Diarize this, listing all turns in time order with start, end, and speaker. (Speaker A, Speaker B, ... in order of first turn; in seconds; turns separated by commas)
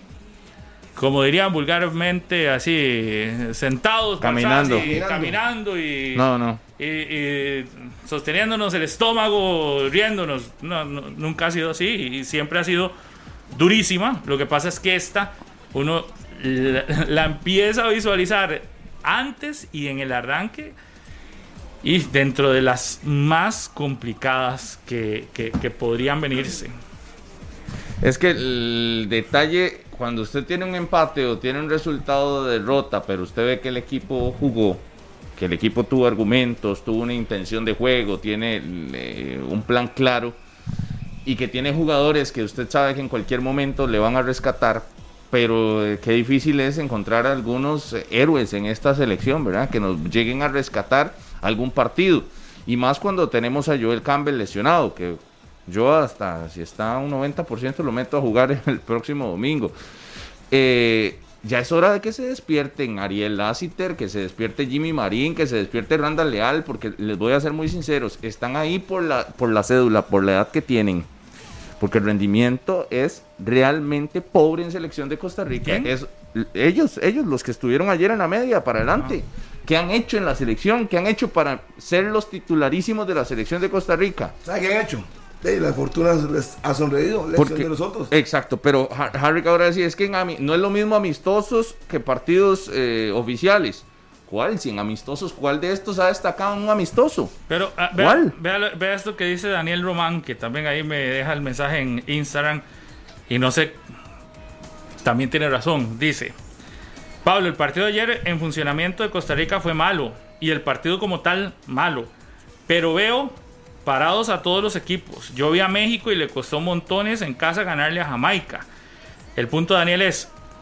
Speaker A: 0.9-6.3, Speaker B: 4.2-5.3, Speaker C: 4.8-5.3, Speaker B: 6.1-6.6, Speaker A: 6.8-12.9, Speaker A: 13.5-20.7, Speaker A: 21.8-26.7, Speaker B: 28.0-34.8, Speaker B: 35.4-40.4, Speaker B: 41.2-59.7, Speaker B: 60.5-71.1, Speaker B: 71.8-84.3, Speaker A: 75.6-75.9, Speaker C: 84.5-88.1, Speaker B: 87.4-97.3, Speaker A: 97.5-102.6, Speaker B: 97.9-98.3, Speaker A: 103.3-103.8, Speaker A: 105.0-106.3, Speaker A: 107.2-112.1, Speaker A: 112.7-118.7, Speaker A: 119.4-120.3